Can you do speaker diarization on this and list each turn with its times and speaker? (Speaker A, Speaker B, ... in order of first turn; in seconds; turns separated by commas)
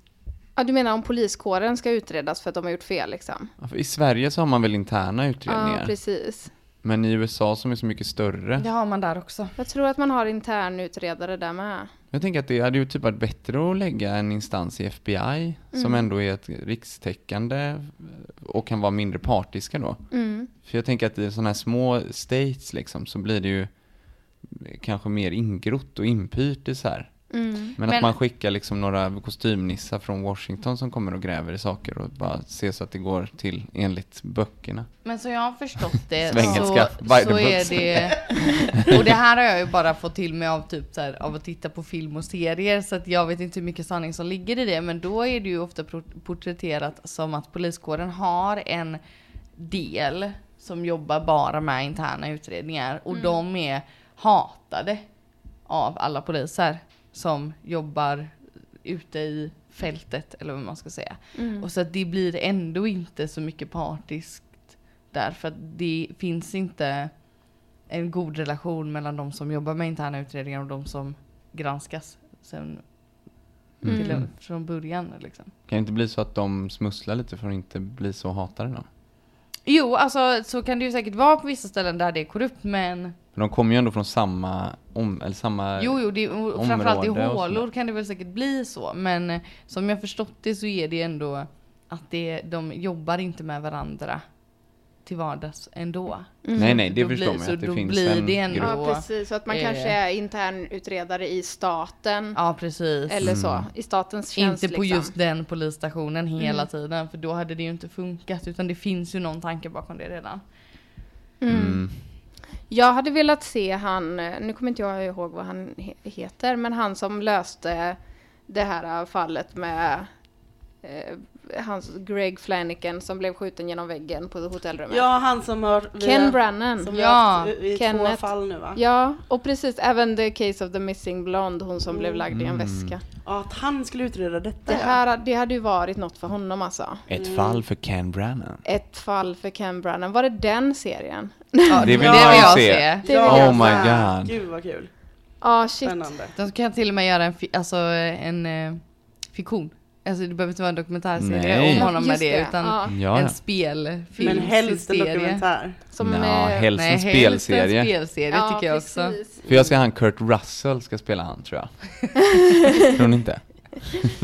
Speaker A: 0.6-3.5, Speaker B: 3.6-8.7, Speaker A: 5.5-6.5, Speaker C: 8.6-9.6, Speaker A: 9.6-11.9, Speaker B: 12.1-35.0, Speaker A: 15.7-16.1, Speaker A: 20.1-20.5, Speaker A: 27.3-27.8, Speaker C: 27.9-28.1, Speaker C: 35.0-49.0, Speaker B: 36.3-38.4, Speaker D: 38.2-38.6, Speaker C: 49.5-75.5, Speaker A: 53.1-53.4, Speaker A: 61.3-61.7, Speaker B: 73.8-74.3, Speaker A: 73.9-74.2, Speaker B: 75.7-78.8, Speaker C: 79.6-83.2, Speaker B: 83.3-87.7, Speaker C: 85.8-100.0, Speaker A: 96.4-96.8, Speaker B: 96.5-98.8, Speaker A: 98.6-105.1, Speaker C: 102.3-103.2, Speaker B: 103.2-103.7, Speaker C: 104.3-110.9, Speaker A: 106.4-106.7, Speaker A: 111.4-120.2, Speaker B: 111.5-112.1, Speaker A: 120.8-125.1, Speaker D: 124.9-128.8, Speaker A: 126.0-126.9, Speaker C: 126.9-127.5, Speaker A: 127.7-133.0, Speaker D: 131.9-132.2, Speaker B: 132.3-133.0, Speaker D: 133.2-135.0, Speaker A: 134.7-137.0, Speaker B: 137.1-138.6, Speaker D: 137.2-137.6, Speaker A: 138.6-143.8, Speaker C: 141.7-143.1, Speaker B: 141.8-144.3, Speaker D: 141.9-146.3, Speaker A: 145.4-146.1, Speaker C: 146.4-155.4, Speaker B: 151.2-151.9, Speaker A: 151.7-152.9, Speaker B: 152.9-153.9, Speaker A: 154.2-154.5, Speaker D: 154.2-155.9, Speaker A: 155.9-156.7, Speaker B: 156.0-157.9, Speaker C: 156.8-159.2, Speaker A: 158.3-159.4, Speaker D: 159.4-159.8, Speaker B: 159.5-164.1